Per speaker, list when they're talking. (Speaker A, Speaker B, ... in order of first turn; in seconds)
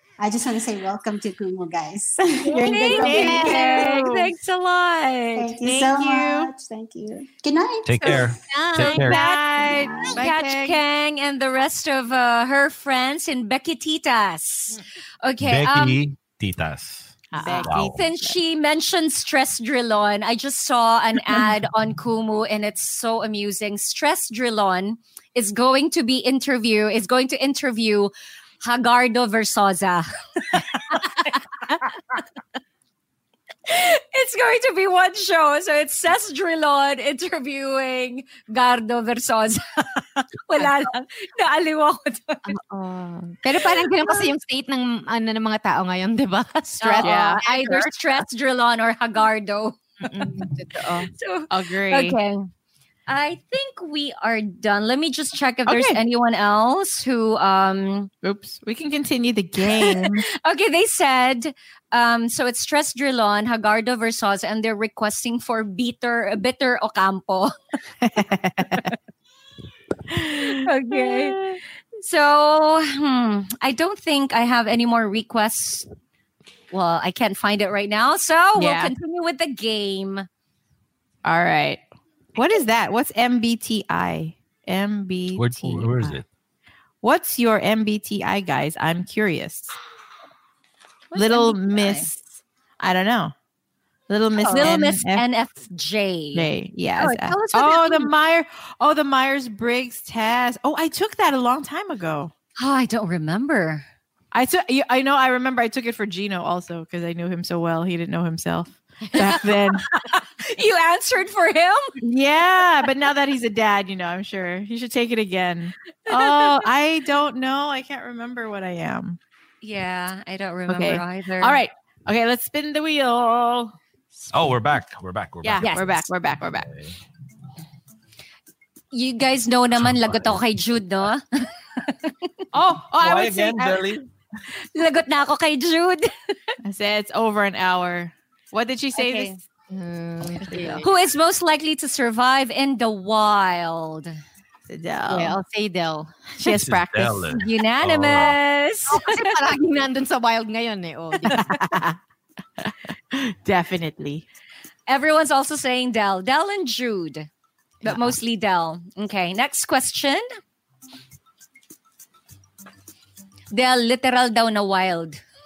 Speaker A: 0.2-4.0, 5.3-8.3, 9.7-10.2
Speaker B: 2.5-5.5, 10.1-16.0, 17.7-31.7, 33.7-42.5, 43.6-44.2, 46.8-49.8, 51.1-52.5, 53.1-58.1, 59.7-67.5, 70.6-71.4, 72.0-75.9, 76.7-80.3, 91.1-92.1, 94.4-98.1, 102.6-103.8, 110.0-111.9, 116.1-116.5, 119.6-121.6, 125.6-126.0, 128.9-131.2, 131.8-132.2, 134.7-136.1, 138.9-139.3, 140.8-144.2, 147.3-149.3, 154.9-157.3, 157.8-160.2, 163.5-165.2
Speaker C: 2.5-4.3, 5.6-6.5, 8.8-10.8, 17.3-18.4, 47.0-47.4, 50.8-52.2, 55.7-56.0, 58.2-60.2, 68.0-68.9, 70.1-71.6, 78.6-78.9, 81.2-81.8, 82.3-86.2, 87.0-89.8, 91.1-93.3, 94.1-95.2, 96.3-102.3, 104.3-109.8, 112.0-119.2, 120.7-124.3, 125.4-126.7, 132.5-133.9, 136.6-139.4, 140.4-140.8, 144.7-145.3, 146.4-147.4, 151.2-151.6, 152.6-154.2
Speaker D: 7.8-9.2, 15.4-18.0, 85.4-86.2, 124.3-125.8, 126.6-126.9, 129.8-130.4, 133.0-134.0, 146.5-148.4
Speaker E: 8.1-10.1, 17.3-17.7, 42.4-47.9, 50.0-51.0, 109.1-109.5, 139.7-140.9, 145.1-146.3, 148.9-152.0